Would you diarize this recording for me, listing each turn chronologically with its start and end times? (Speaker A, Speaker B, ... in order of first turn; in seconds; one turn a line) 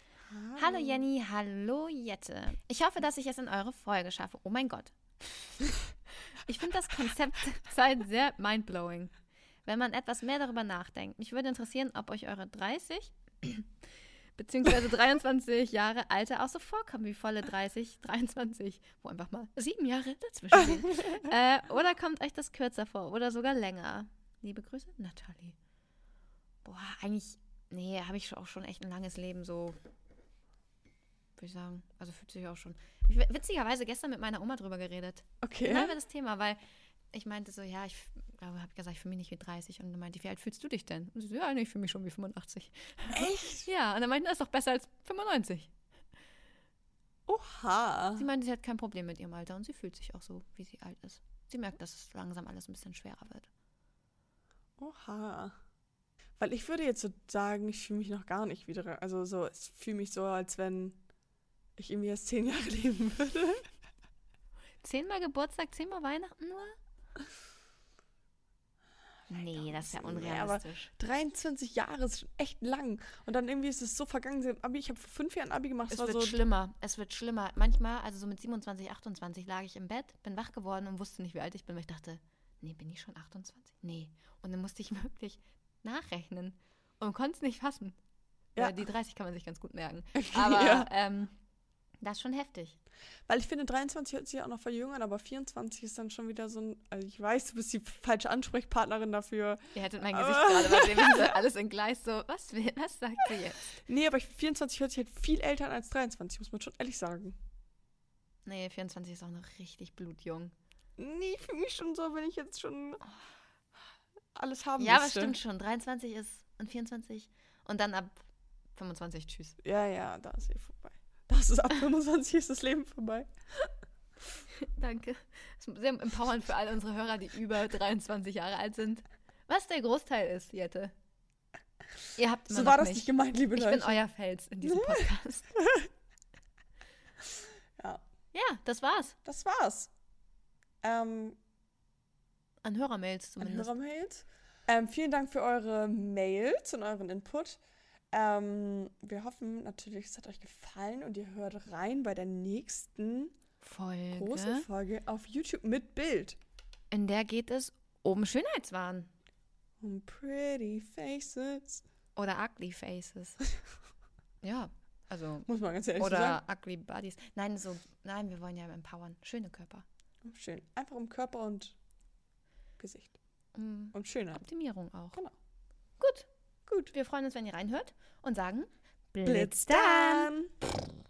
Speaker A: 0.3-1.1
Speaker B: 0.6-5.4
Speaker B: 6.5-9.1
Speaker B: 9.7-13.7
Speaker B: 14.4-25.6
Speaker B: 26.6-29.8
Speaker B: 31.4-36.6
Speaker A: 35.4-36.0
Speaker B: 37.1-45.7
Speaker A: 43.1-43.7
Speaker A: 47.3-48.3
Speaker B: 48.2-53.5
Speaker A: 54.8-55.5
Speaker A: 56.4-61.0
Speaker A: 61.8-63.6
Speaker B: 64.8-66.8
Speaker B: 69.3-70.9
Speaker A: 69.4-76.4
Speaker B: 75.9-88.0
Speaker A: 88.6-88.9
Speaker B: 88.6-91.3
Speaker A: 90.2-90.9
Speaker B: 92.0-92.8
Speaker A: 93.3-101.4
Speaker B: 99.8-103.7
Speaker A: 103.8-107.4
Speaker B: 108.5-110.5
Speaker A: 111.0-113.0
Speaker A: 114.3-115.4
Speaker B: 114.8-118.2
Speaker B: 118.8-119.6
Speaker A: 119.6-123.3
Speaker B: 124.6-130.9
Speaker B: 132.2-135.5
Speaker A: 132.5-134.0
Speaker A: 134.6-135.9
Speaker B: 138.3-139.2
Speaker A: 139.2-139.9
Speaker A: 140.8-141.4
Speaker B: 142.6-143.7
Speaker A: 143.4-147.6
Speaker A: 148.1-153.3
Speaker B: 153.6-154.7
Speaker A: 154.1-156.4
Speaker B: 156.9-159.1
Speaker A: 159.8-161.8
Speaker B: 162.2-163.4
Speaker B: 164.4-169.8
Speaker A: 165.5-166.4
Speaker A: 170.2-171.8
Speaker A: 172.8-173.2
Speaker B: 173.6-175.2
Speaker A: 173.9-174.4
Speaker B: 176.0-176.3
Speaker A: 176.7-176.9
Speaker B: 176.9-180.3
Speaker A: 179.2-180.5